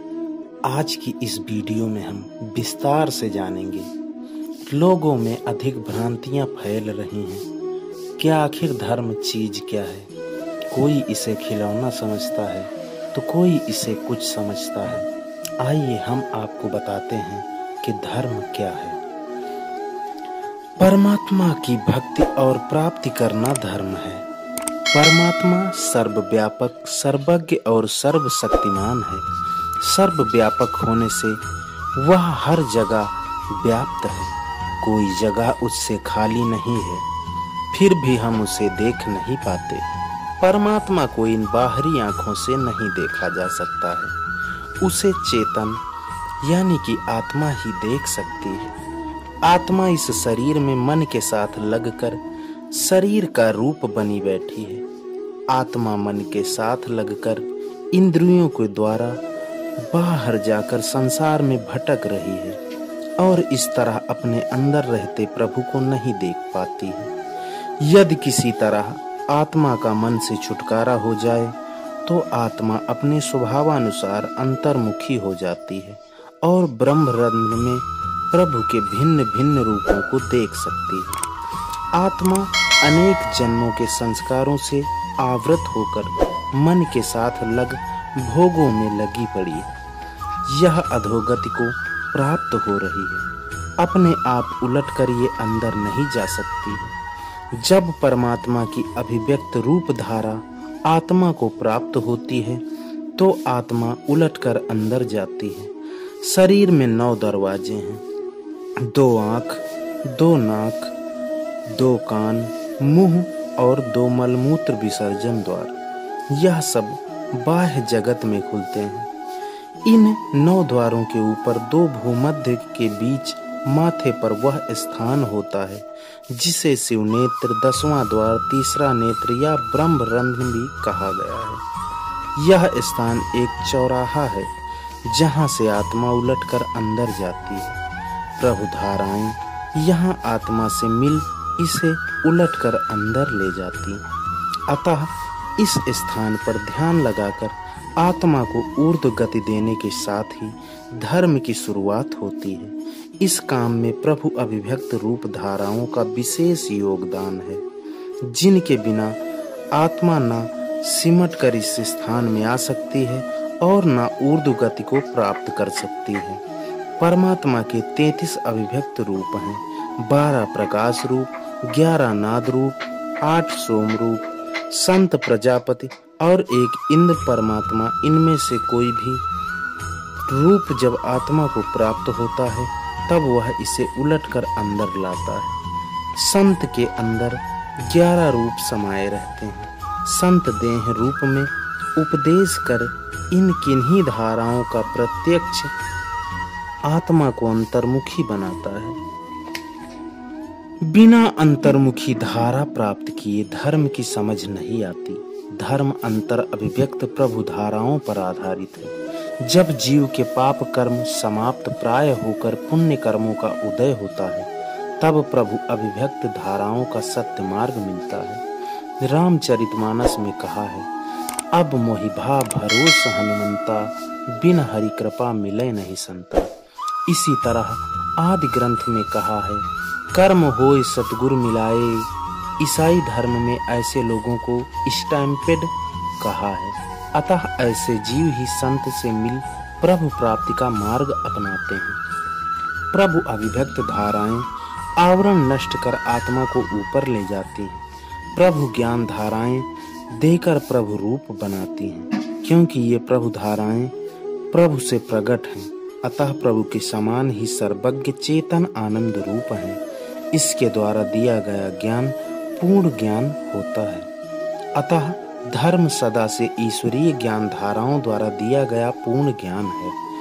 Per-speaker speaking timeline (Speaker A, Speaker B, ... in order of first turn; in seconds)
Speaker A: 0.7-3.9, 4.7-7.4, 8.2-10.1, 10.7-15.1, 15.6-19.0, 20.8-24.2, 24.9-29.2, 29.8-31.4, 32.0-37.0, 37.7-39.8, 40.4-44.1, 44.8-45.8, 46.4-48.7, 49.5-52.2, 52.7-54.8, 55.5-59.2, 59.9-62.6, 63.2-67.1, 67.8-71.5, 72.0-81.2, 81.9-89.7, 90.5-93.2, 93.8-96.9, 97.6-102.6, 103.2-108.0, 108.8-110.9, 111.7-115.7, 116.3-119.1, 119.8-131.6, 132.4-134.5, 135.1-137.8, 138.4-144.0, 144.7-157.6, 158.3-159.2, 159.7-166.4, 167.0-179.2, 180.3-185.5, 186.2-195.7, 196.9-199.0, 200.8-214.5, 215.0-218.4, 219.0-220.9, 221.5-226.5, 227.1-232.1, 232.6-242.0, 242.9-247.8, 248.3-253.9, 254.5-259.8, 260.3-264.1, 264.8-270.0